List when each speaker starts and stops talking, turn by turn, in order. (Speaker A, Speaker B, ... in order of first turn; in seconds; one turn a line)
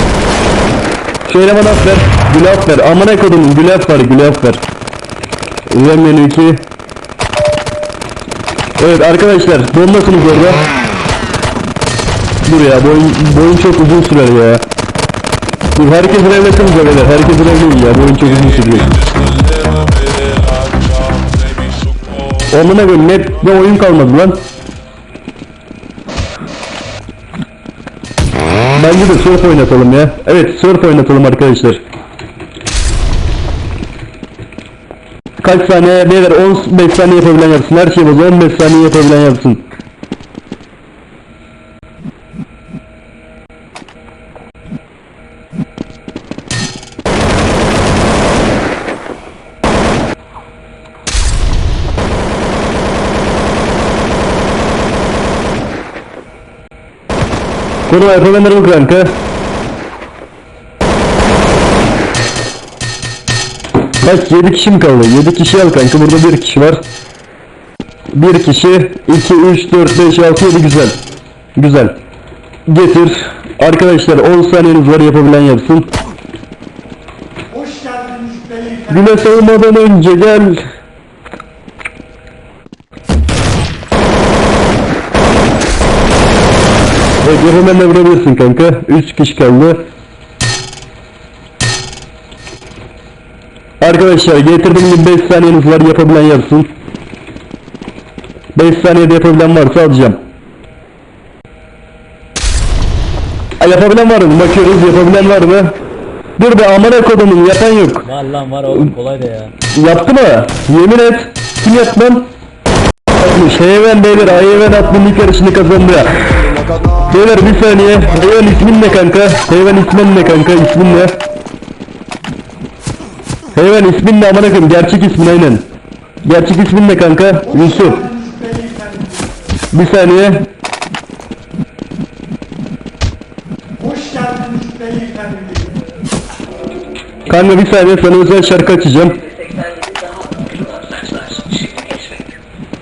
Speaker A: 1.2-4.6
Speaker A: 5.7-6.6
Speaker A: 8.8-10.6
Speaker A: 12.4-14.6
Speaker A: 15.7-19.1
Speaker B: 18.9-22.4
Speaker A: 22.4-24.4
Speaker A: 28.7-31.8
Speaker A: 35.4-39.7
Speaker A: 57.9-59.1
Speaker A: 64.0-66.8
Speaker A: 68.1-71.0
Speaker A: 71.5-72.0
Speaker A: 72.7-75.9
Speaker B: 77.7-78.5
Speaker A: 78.8-80.6
Speaker A: 87.2-89.8
Speaker A: 93.8-96.7
Speaker A: 98.5-100.2
Speaker A: 103.6-105.8
Speaker A: 106.4-108.1
Speaker C: 108.0-109.5
Speaker A: 109.7-112.3
Speaker A: 113.1-116.3
Speaker A: 117.0-121.2
Speaker A: 123.5-125.7
Speaker A: 126.2-128.3
Speaker B: 128.3-129.1
Speaker A: 129.7-130.5
Speaker B: 133.8-135.7
Speaker A: 137.3-139.4
Speaker C: 139.6-142.1